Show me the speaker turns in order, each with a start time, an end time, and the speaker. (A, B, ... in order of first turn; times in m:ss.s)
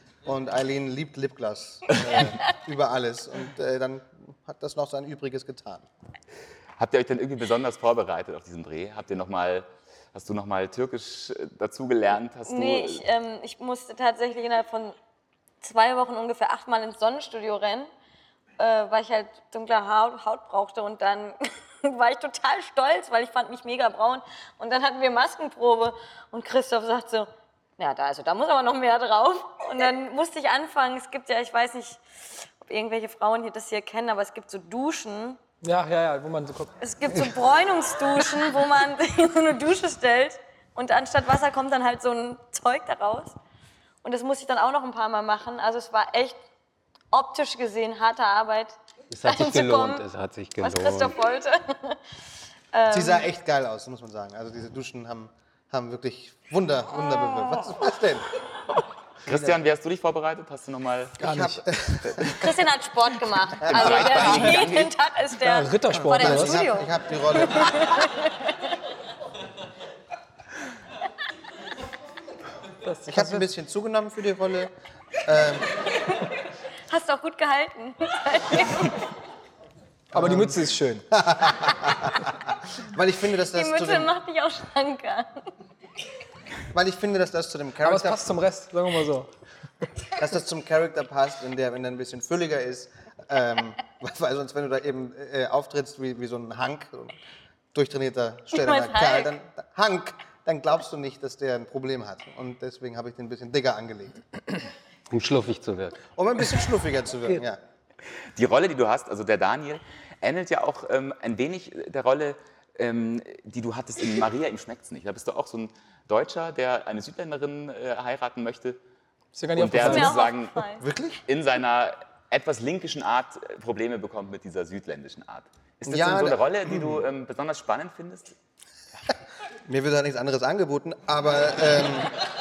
0:00.2-0:05.8 A
0:06.8-0:13.0 B
0:12.5-0:15.0 C
0:15.6-0:17.9 C
0:18.6-0:35.4 C
0:35.6-0:36.7 D
0:36.8-0:43.3 C
0:44.0-0:46.4 C
0:47.1-0:50.0 C
0:49.1-0:51.1 E
0:50.6-0:52.0 C
0:52.7-0:53.2 C
0:52.9-0:58.3 A
0:59.2-1:01.2 B
0:59.3-0:59.6 A
1:01.2-1:02.5 A
1:01.2-1:01.6 D
1:02.4-1:08.6 C
1:03.6-1:04.6 A
1:03.7-1:04.9 B
1:05.4-1:06.6 D
1:05.9-1:08.0 A
1:12.8-1:13.5 D
1:13.1-1:15.7 A
1:16.9-1:19.0 C
1:20.1-1:20.6 A
1:20.1-1:21.0 D
1:21.1-1:24.1 A
1:23.5-1:25.5 C
1:26.7-1:28.4 A
1:27.8-1:29.3 D
1:30.1-1:37.2 A
1:37.7-1:44.2 A
1:38.5-1:39.3 C
1:45.1-1:46.0 E
1:46.2-1:47.6 A
1:48.3-1:58.8 B
1:59.3-2:00.2 D
1:59.6-2:00.6 B
1:59.8-2:00.8 C
2:00.8-2:01.2 A
2:01.3-2:08.3 B
2:05.9-2:07.0 A
2:09.7-2:12.2 A